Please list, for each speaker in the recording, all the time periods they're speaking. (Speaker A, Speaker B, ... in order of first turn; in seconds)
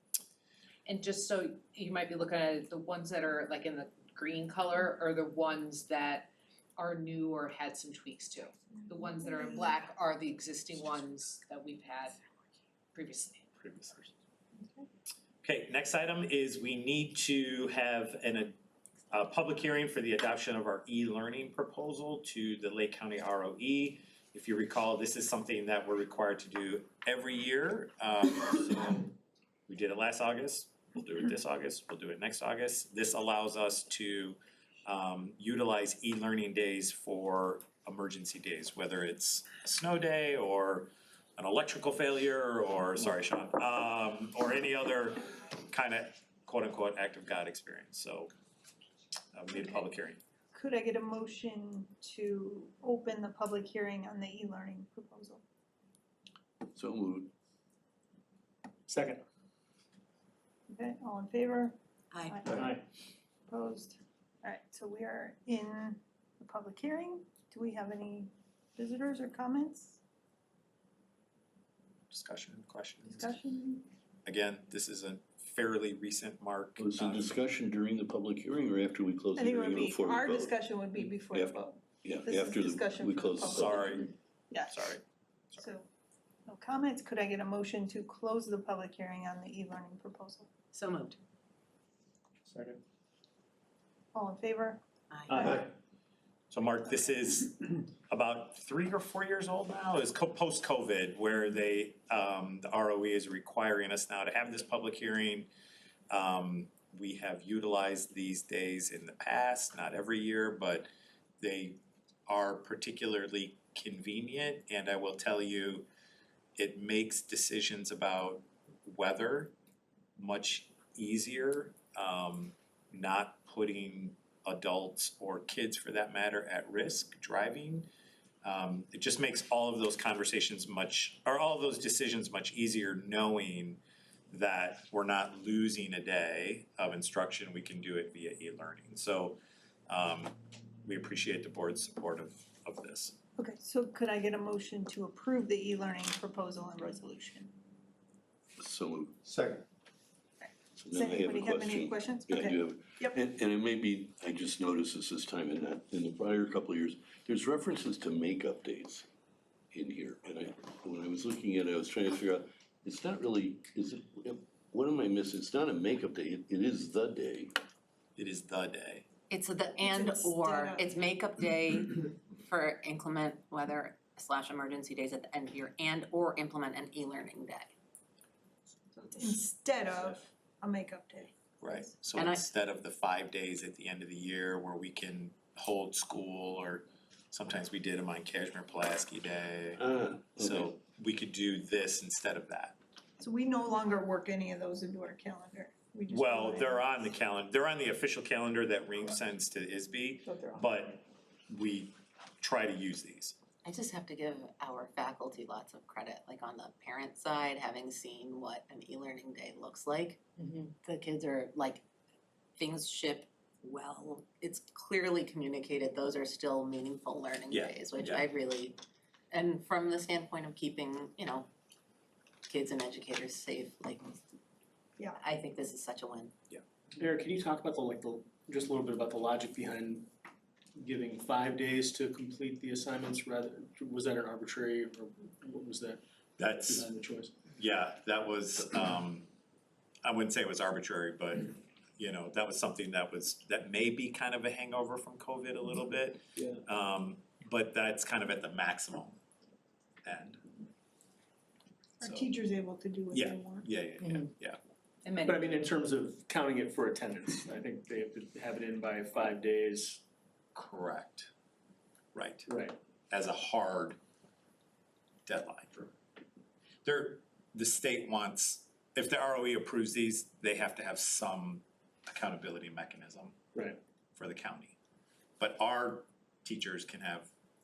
Speaker A: 0.8-12.2, 12.9-13.5, 255.0-255.4
Speaker B: 8.9-9.5, 14.6-14.8, 50.5-55.4, 60.7-61.8, 62.3-62.7, 63.5-70.0, 73.1-73.8, 79.3-84.0, 84.5-84.8, 85.6-85.9, 86.5-90.5, 94.1-95.7, 143.4-147.5, 150.4-153.2, 169.8-170.9, 178.9-181.3, 193.2-196.9, 200.2-200.6, 252.0-253.7
Speaker C: 13.6-14.1, 15.4-18.6, 19.1-29.1, 29.7-48.3, 49.3-50.2, 72.1-73.3, 74.2-77.3, 83.5-84.1, 84.7-85.0, 96.5-105.5, 106.1-110.9, 111.4-115.9, 116.6-119.5, 120.2-127.9, 128.4-143.2, 168.2-169.1, 181.6-189.8, 190.3-192.8, 196.1-203.3, 217.5-218.2, 236.4-236.9, 237.4-239.3, 240.0-249.2, 250.0-250.5, 252.0-252.3, 253.1-254.6, 260.5-261.3, 262.1-262.5, 263.1-264.0, 265.2-265.8, 266.8-273.4, 274.1-274.8, 275.4-277.3
Speaker D: 56.7-57.3, 76.8-80.6, 81.3-84.0, 148.6-149.6, 150.8-159.1, 159.7-167.5, 189.8-190.7
Speaker E: 58.9-59.2, 62.5-62.8, 92.5-92.8, 227.0-230.1, 230.8-236.0, 236.7-237.3, 255.2-260.0, 262.5-262.8
Speaker F: 62.1-62.4, 90.7-91.2, 95.1-95.5, 169.3-177.7, 182.2-182.4, 203.6-211.8, 212.6-218.8, 219.3-221.5, 222.4-224.2, 225.2-226.3